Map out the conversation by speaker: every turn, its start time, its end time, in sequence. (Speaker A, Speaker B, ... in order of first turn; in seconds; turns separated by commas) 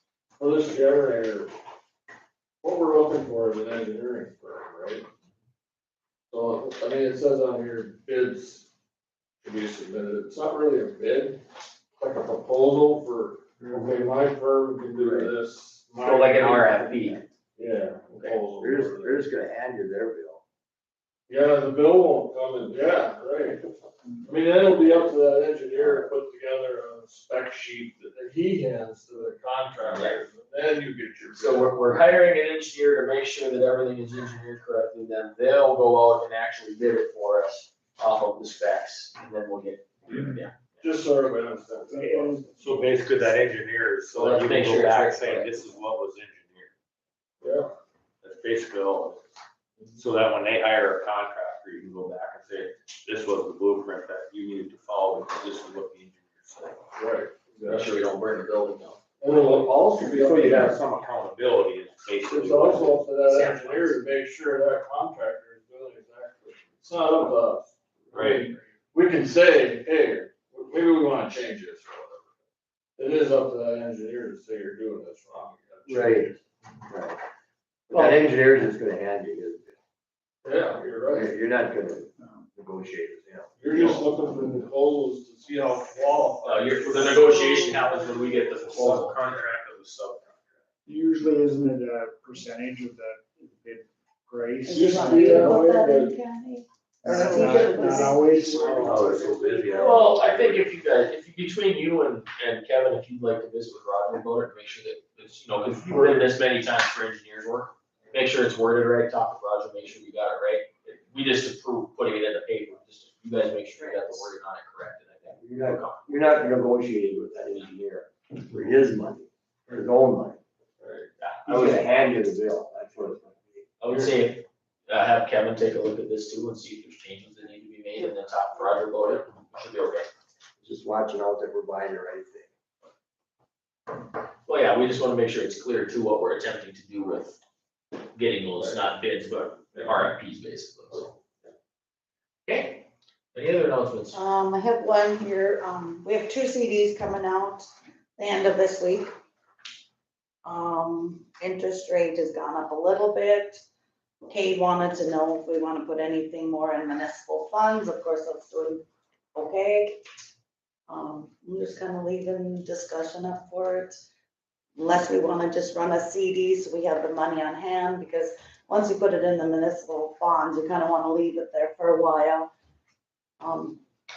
Speaker A: 0.4-1.5, Speaker A: 2.6-5.0, Speaker A: 6.3-8.7, Speaker A: 9.4-11.4, Speaker A: 12.0-16.8, Speaker B: 15.0-15.3, Speaker C: 16.0-17.2, Speaker A: 17.6-19.2, Speaker B: 18.6-20.4, Speaker A: 21.3-23.6, Speaker A: 24.2-31.8, Speaker C: 29.8-30.2, Speaker C: 31.4-40.8, Speaker A: 40.8-42.4, Speaker D: 41.9-42.8, Speaker E: 42.6-46.7, Speaker C: 44.1-45.7, Speaker A: 47.4-47.7, Speaker E: 48.2-49.2, Speaker E: 50.0-56.8, Speaker A: 57.0-57.9, Speaker C: 57.6-59.4, Speaker A: 59.2-60.8, Speaker E: 60.0-63.0, Speaker A: 62.3-72.3, Speaker C: 63.3-64.0, Speaker E: 68.1-68.5, Speaker A: 73.0-76.4, Speaker B: 75.9-76.3, Speaker B: 76.9-77.2, Speaker A: 77.9-78.2, Speaker B: 77.9-79.7, Speaker A: 80.4-81.3, Speaker B: 81.1-83.5, Speaker A: 83.6-87.4, Speaker C: 86.4-89.2, Speaker E: 87.2-90.6, Speaker D: 90.8-95.7, Speaker F: 94.6-98.4, Speaker A: 94.7-96.1, Speaker D: 97.0-99.6, Speaker E: 98.6-100.7, Speaker B: 99.6-100.1, Speaker C: 99.7-116.0, Speaker A: 105.8-106.3, Speaker B: 115.4-120.4, Speaker C: 120.8-121.9, Speaker B: 121.5-123.6, Speaker C: 123.8-130.1, Speaker B: 130.6-132.5, Speaker C: 134.4-137.4, Speaker C: 138.1-141.1, Speaker C: 142.4-144.2, Speaker F: 144.1-147.7, Speaker F: 148.2-149.1, Speaker F: 150.4-153.6, Speaker F: 154.3-158.8, Speaker F: 159.3-160.0, Speaker F: 160.9-163.9, Speaker F: 164.8-172.5, Speaker F: 173.4-173.8